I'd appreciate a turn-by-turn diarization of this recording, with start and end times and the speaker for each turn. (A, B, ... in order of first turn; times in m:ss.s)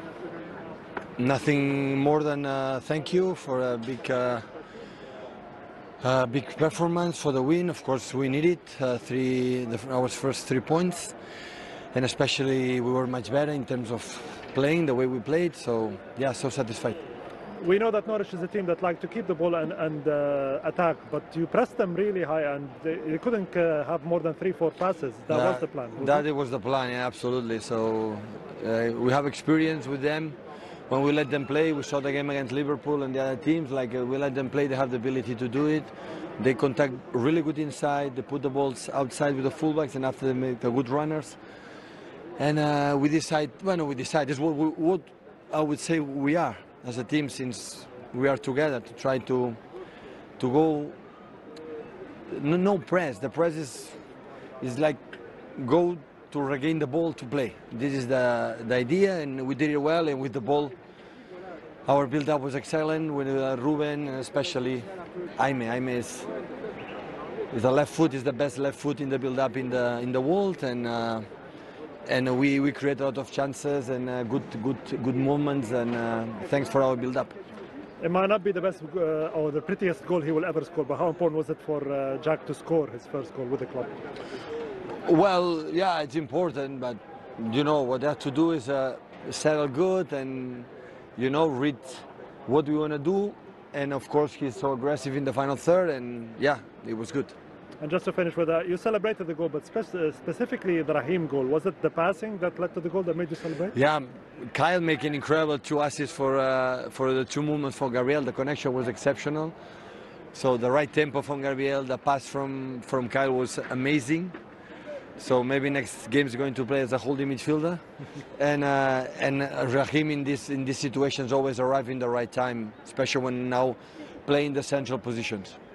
0:01.2-0:04.4 A
0:06.0-0:11.2 A
0:11.9-0:17.0 A
0:17.6-0:26.2 B
0:25.3-0:30.4 A
0:30.9-0:35.9 A
0:36.4-0:41.4 A
0:42.4-0:49.6 A
0:50.4-0:51.0 A
0:52.3-0:54.0 A
0:54.6-1:00.8 A
1:01.9-1:06.3 A
1:07.5-1:11.2 A
1:12.1-1:17.3 A
1:18.0-1:23.9 B
1:25.1-1:37.4 A
1:37.8-1:43.8 B
1:43.7-1:49.6 A
1:50.3-1:54.3 A
1:55.2-1:57.8 A
1:58.4-2:05.6 A